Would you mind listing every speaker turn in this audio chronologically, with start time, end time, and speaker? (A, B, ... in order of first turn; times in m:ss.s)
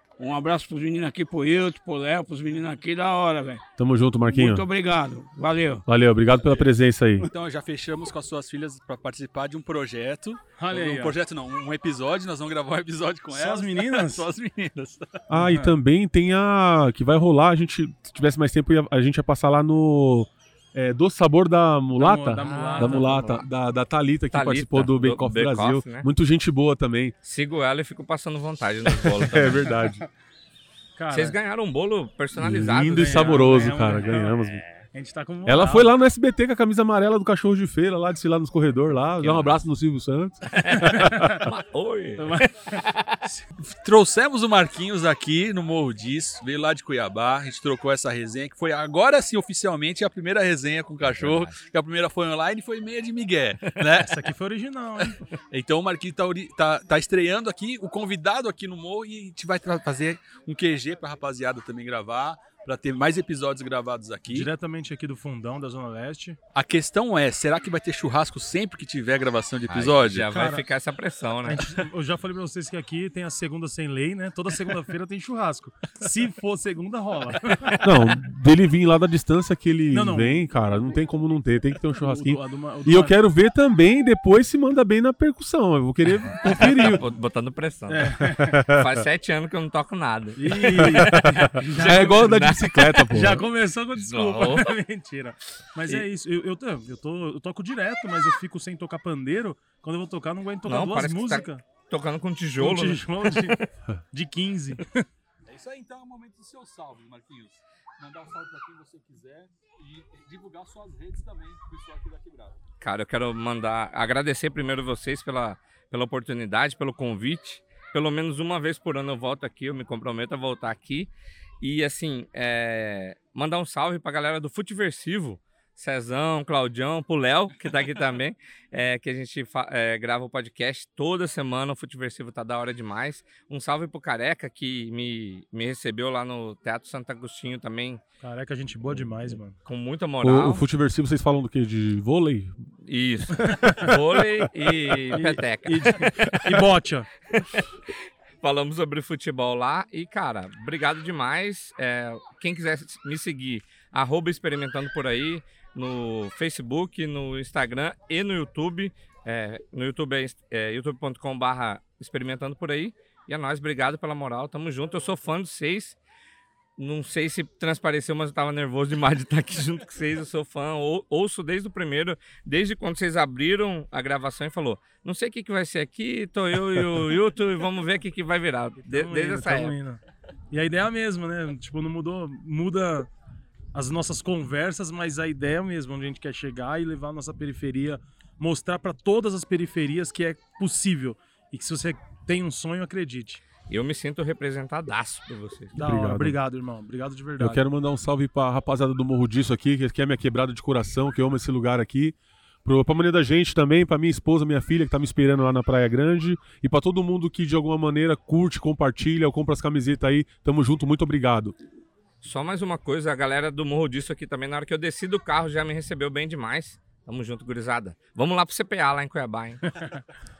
0:00.2-0:03.6 A
0:03.8-0:04.6 B
0:04.3-0:05.8 A
0:05.9-0:07.3 B
0:07.2-0:15.2 C
0:10.6-0:11.2 D
0:13.3-0:14.3 D
0:15.3-0:27.1 B
0:15.3-0:15.7 D
0:22.0-0:23.2 D
0:22.4-0:23.4 E
0:24.3-0:26.1 E
0:27.2-0:29.6 E
0:28.9-0:30.0 B
0:31.0-0:31.4 D
0:31.1-0:33.4 E
0:32.3-0:34.6 B
0:32.8-0:34.4 D
0:34.9-0:35.9 D
0:35.4-0:41.3 B
0:39.2-0:39.6 E
0:40.5-0:43.2 E
0:41.1-0:41.5 D
0:42.2-0:42.5 D
0:43.6-0:54.2 C
0:51.2-0:51.6 E
0:54.0-0:55.2 D
0:55.5-1:04.5 C
1:04.3-1:06.4 D
1:06.5-1:10.3 C
1:09.7-1:11.7 E
1:10.3-1:10.6 D
1:11.4-1:17.8 D
1:17.8-1:27.0 B
1:19.9-1:20.4 D
1:22.0-1:23.1 D
1:26.5-1:27.0 D
1:26.7-1:33.0 E
1:27.9-1:28.6 D
1:28.2-1:29.0 B
1:30.4-1:41.6 D
1:30.7-1:33.4 B
1:34.0-1:34.7 E
1:40.6-1:43.5 E
1:42.6-1:45.0 D
1:45.4-1:52.6 C
1:52.8-2:18.0 E
2:18.2-2:19.5 D
2:18.9-2:20.6 E
2:20.2-2:22.7 B
2:22.8-2:26.4 E
2:23.5-2:23.9 D
2:25.1-2:27.1 D
2:27.3-2:27.8 E
2:28.4-2:46.0 E
2:46.8-2:59.7 E
2:58.8-3:00.0 D
3:00.5-3:03.1 D
3:03.7-3:13.4 D
3:13.7-3:15.8 E
3:15.8-3:16.4 B
3:15.8-3:17.6 D
3:17.4-3:31.6 B
3:32.2-3:39.6 E
3:39.7-3:40.0 D